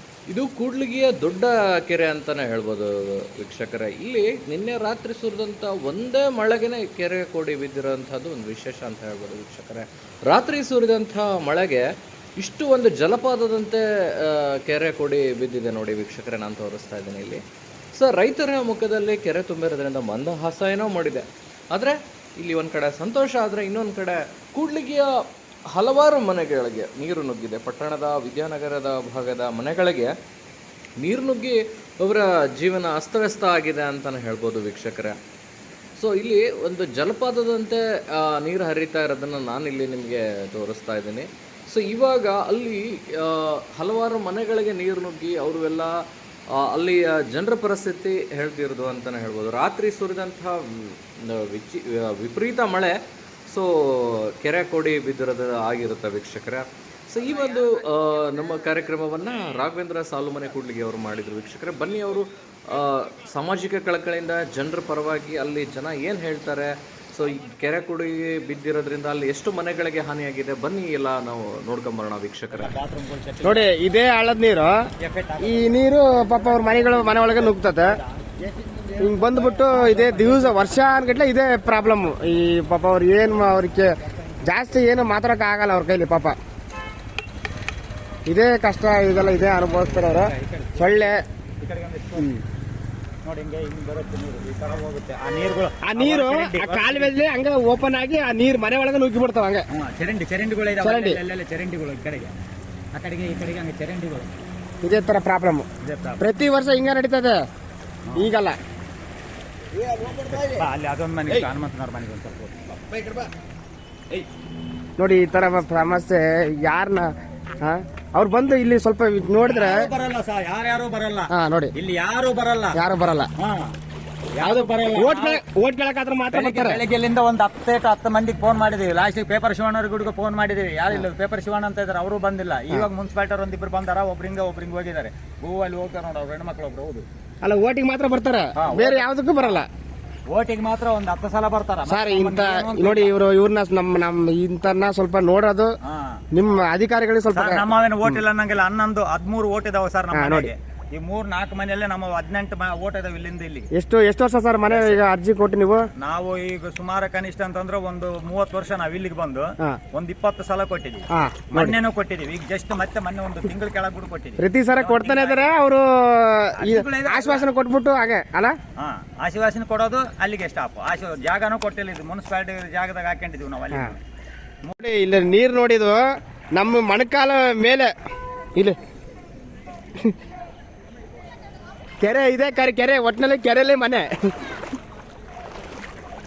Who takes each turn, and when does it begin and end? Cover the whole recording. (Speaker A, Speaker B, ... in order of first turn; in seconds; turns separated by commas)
Speaker A: 0.3-11.8, Speaker A: 12.4-17.4, Speaker A: 17.9-25.1, Speaker A: 25.7-30.1, Speaker A: 31.0-35.1, Speaker A: 36.0-45.9, Speaker A: 46.6-52.9, Speaker A: 53.5-72.7, Speaker B: 72.5-73.7, Speaker C: 73.4-74.8, Speaker B: 75.0-75.8, Speaker C: 75.4-78.0, Speaker B: 77.3-80.8, Speaker C: 79.0-83.9, Speaker C: 84.5-86.3, Speaker C: 88.3-91.2, Speaker B: 89.2-92.3, Speaker C: 92.2-92.4, Speaker B: 93.2-97.1, Speaker C: 95.8-99.6, Speaker B: 99.7-102.4, Speaker C: 100.8-101.2, Speaker B: 102.9-104.4, Speaker C: 104.8-105.7, Speaker B: 105.8-106.2, Speaker C: 106.2-107.4, Speaker C: 108.1-108.6, Speaker B: 109.9-113.2, Speaker C: 115.0-119.9, Speaker B: 119.4-122.8, Speaker C: 121.3-121.7, Speaker C: 122.7-123.3, Speaker B: 123.4-123.7, Speaker B: 124.3-125.4, Speaker C: 124.4-126.8, Speaker B: 126.3-137.0, Speaker C: 137.4-139.7, Speaker B: 138.6-139.6, Speaker B: 140.3-143.1, Speaker C: 141.9-145.7, Speaker B: 145.8-146.2, Speaker C: 146.3-148.2, Speaker B: 147.3-153.7, Speaker C: 150.1-150.5, Speaker C: 153.7-155.8, Speaker B: 154.7-155.0, Speaker B: 156.0-165.5, Speaker C: 161.1-161.8, Speaker C: 164.4-168.6, Speaker B: 166.6-167.5, Speaker B: 168.8-174.0, Speaker C: 174.8-176.0, Speaker C: 176.6-177.9, Speaker C: 182.0-184.3